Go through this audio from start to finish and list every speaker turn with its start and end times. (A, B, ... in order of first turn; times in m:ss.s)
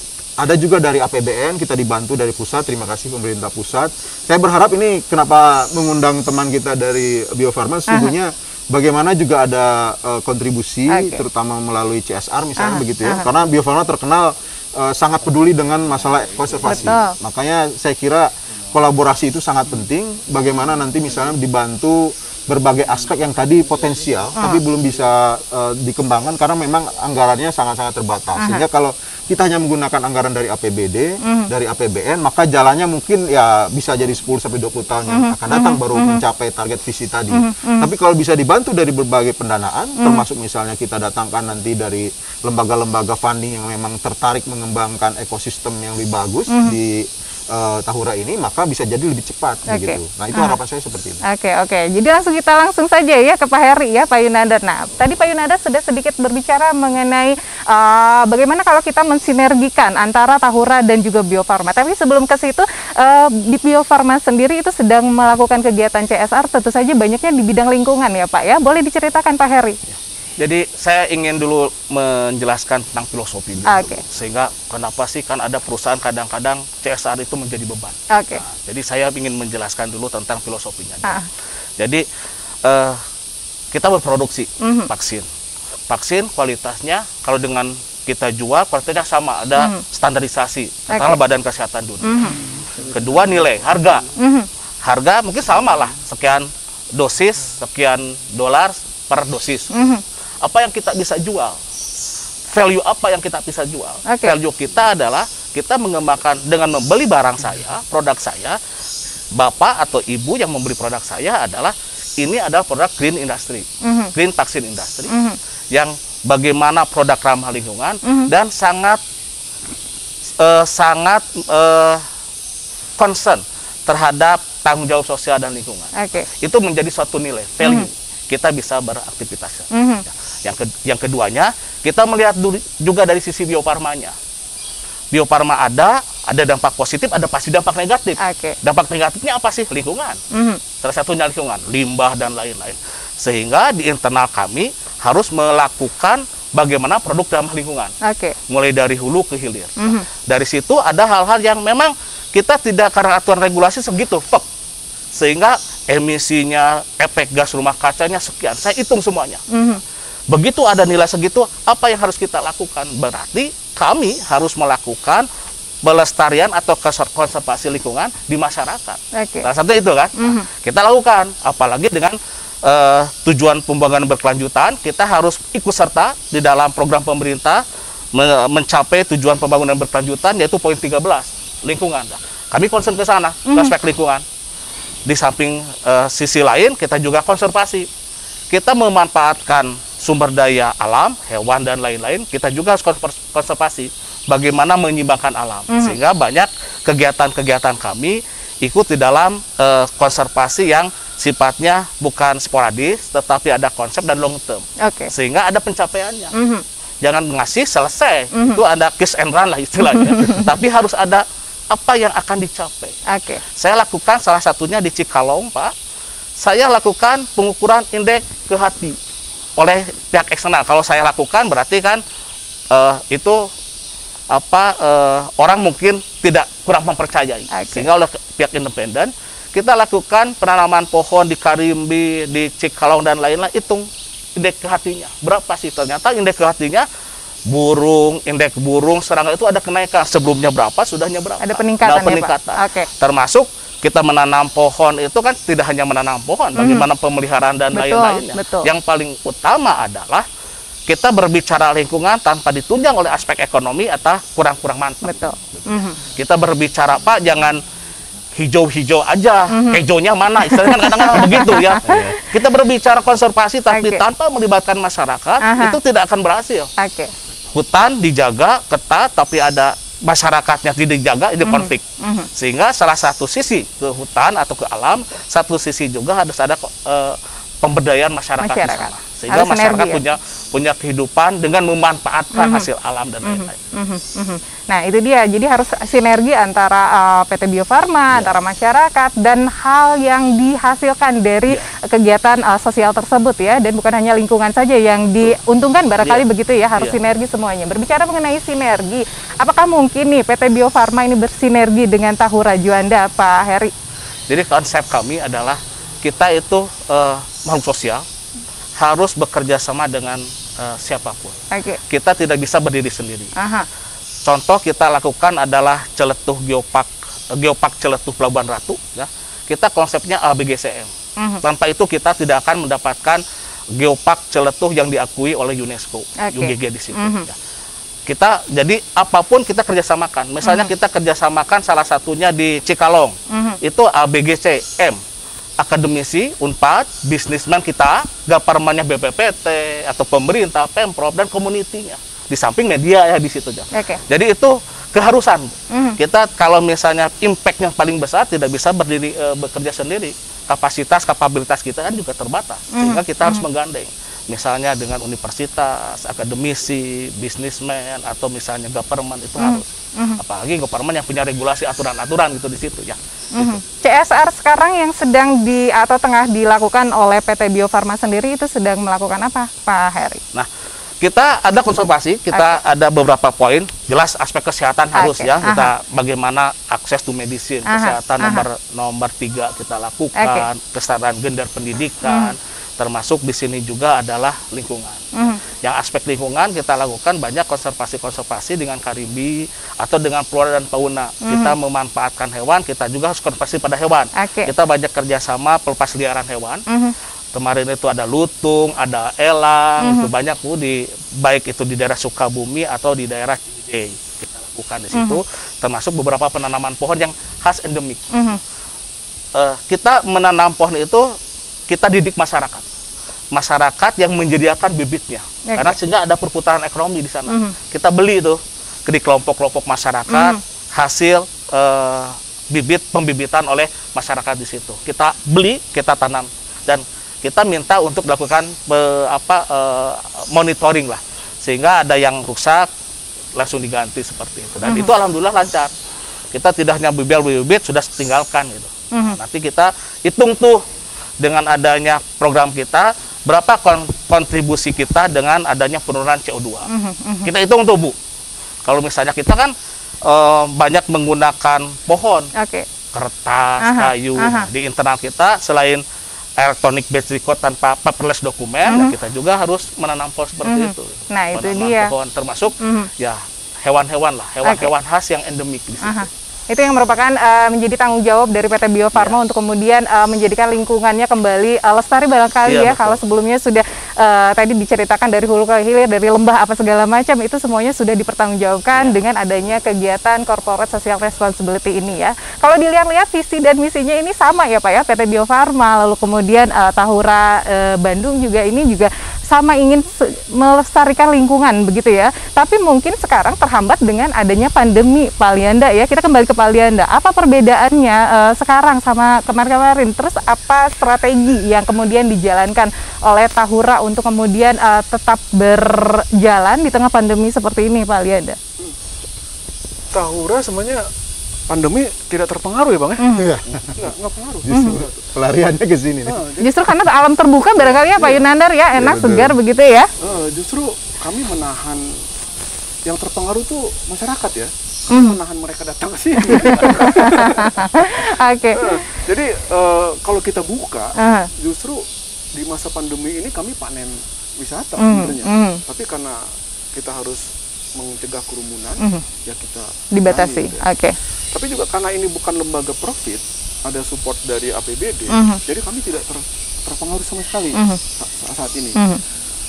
0:00.4-0:51.2 A
0:10.9-0:11.3 B
0:12.6-0:13.3 B
0:16.7-0:17.2 B
0:28.4-0:28.6 B
0:31.2-0:31.5 B
0:35.1-0:36.2 B
0:37.3-0:37.9 B
0:40.0-0:40.2 B
0:46.5-0:46.8 B
0:49.7-0:50.6 B
0:51.2-1:09.8 B
1:09.9-1:21.2 C
1:13.7-1:14.0 B
1:18.1-1:18.4 B
1:21.8-1:22.0 C
1:22.6-1:23.0 C
1:23.7-1:25.3 C
1:24.6-1:24.9 B
1:25.9-1:34.1 C
1:29.6-1:29.8 B
1:30.9-1:31.2 B
1:32.0-1:32.4 B
1:34.2-1:34.5 B
1:34.8-1:39.7 C
1:39.7-1:40.0 B
1:40.4-1:41.6 C
1:42.5-1:48.6 C
1:44.1-1:44.4 B
1:49.3-1:55.1 C
1:53.8-1:54.1 B
1:55.1-1:55.4 B
1:55.7-1:59.0 C
1:58.0-1:58.3 B
2:00.4-2:02.0 C
2:03.0-2:09.7 C
2:06.0-2:06.3 B
2:09.7-2:10.0 B
2:10.4-2:14.2 C
2:15.1-2:20.2 C
2:18.2-2:18.6 B
2:20.3-2:20.6 B
2:20.8-2:27.9 C
2:28.0-2:28.4 B
2:28.5-2:34.4 C
2:29.8-2:30.1 B
2:35.1-2:39.4 C
2:39.5-2:39.8 B
2:40.3-2:45.3 C
2:45.8-2:57.6 C
2:49.1-2:49.5 B
2:50.2-2:50.5 B
2:58.1-3:04.2 C
3:03.5-3:03.7 B
3:05.1-3:07.9 C
3:08.5-3:26.3 C
3:15.7-3:16.0 B
3:24.8-3:25.1 B
3:26.4-3:26.6 B
3:27.0-3:33.0 C
3:28.4-3:28.6 B
3:29.9-3:30.5 B
3:33.1-3:33.4 B
3:33.6-3:35.7 C
3:36.4-3:39.0 C
3:39.6-3:42.0 C
3:42.7-3:43.5 C
3:44.3-3:56.9 C
3:47.5-3:47.9 B
3:57.5-4:10.3 C
4:01.4-4:02.9 B
4:06.6-4:06.9 B
4:07.7-4:08.7 B
4:10.9-4:15.1 C
4:15.0-4:16.0 B
4:16.0-4:17.6 C
4:18.4-4:26.7 C
4:19.5-4:19.8 B
4:20.4-4:22.3 B
4:23.7-4:24.0 B
4:25.4-4:25.8 B
4:26.8-4:27.1 B
4:27.5-4:31.8 C
4:31.4-4:32.3 B
4:32.4-4:43.6 C
4:38.4-4:40.0 B
4:42.3-4:42.7 B
4:43.2-5:03.7 B
5:04.3-5:08.0 C
5:08.8-5:11.4 C
5:11.5-5:11.8 B
5:11.9-5:13.3 C
5:13.4-5:13.7 B
5:14.2-5:20.9 C
5:21.4-5:23.2 C
5:23.7-5:27.4 C
5:26.2-5:27.3 B
5:28.1-5:35.0 C
5:30.4-5:30.7 B
5:33.3-5:33.6 B
5:35.6-6:03.6 C
5:43.7-5:44.0 B
5:45.7-5:46.0 B
5:52.7-5:53.4 B
5:59.4-6:00.2 B
6:03.4-6:10.2 B
6:11.0-6:36.6 C
6:12.3-6:12.6 B
6:15.0-6:15.7 B
6:17.7-6:18.5 B
6:20.2-6:20.5 B
6:22.1-6:22.3 B
6:25.2-6:25.4 B
6:31.2-6:31.5 B
6:34.2-6:34.5 B
6:36.7-6:36.9 B
6:37.3-6:48.1 C
6:39.8-6:40.1 B
6:44.9-6:45.2 B
6:48.1-6:48.4 B
6:49.4-6:51.1 C
6:51.7-6:52.6 C
6:53.3-7:12.7 C
6:55.5-6:55.8 B
6:57.3-6:57.5 B
7:00.1-7:00.4 B
7:13.4-7:15.7 C
7:14.6-7:14.9 B
7:16.3-7:20.6 C
7:18.9-7:19.2 B
7:21.2-7:26.7 C
7:26.7-7:27.3 B
7:27.2-7:28.0 C
7:28.6-7:32.3 C
7:32.4-7:32.7 B
7:32.9-7:35.8 C
7:33.6-7:34.5 B
7:36.4-7:46.1 C
7:38.7-7:38.9 B
7:40.4-7:41.9 B
7:42.6-7:42.9 B
7:44.4-7:44.7 B
7:45.8-8:28.4 B
7:52.5-7:53.0 C
8:29.9-8:30.9 D
8:31.5-8:35.1 D
8:33.0-8:33.3 B
8:33.2-8:33.9 A
8:34.4-8:36.2 A
8:34.5-8:34.8 B
8:36.1-8:36.7 D
8:36.4-8:39.9 B
8:37.7-8:38.3 D
8:38.8-8:39.4 A
8:40.0-8:42.0 D
8:42.9-8:51.8 D
8:44.9-8:45.2 B
8:46.2-8:48.8 B
8:51.0-8:51.3 B
8:52.4-8:56.2 D
8:54.8-8:55.6 B
8:56.8-8:57.2 D
8:57.8-9:00.6 D
8:59.9-9:01.0 B
9:01.3-9:08.8 D
9:05.1-9:05.4 B
9:07.6-9:07.8 B
9:08.8-9:09.0 B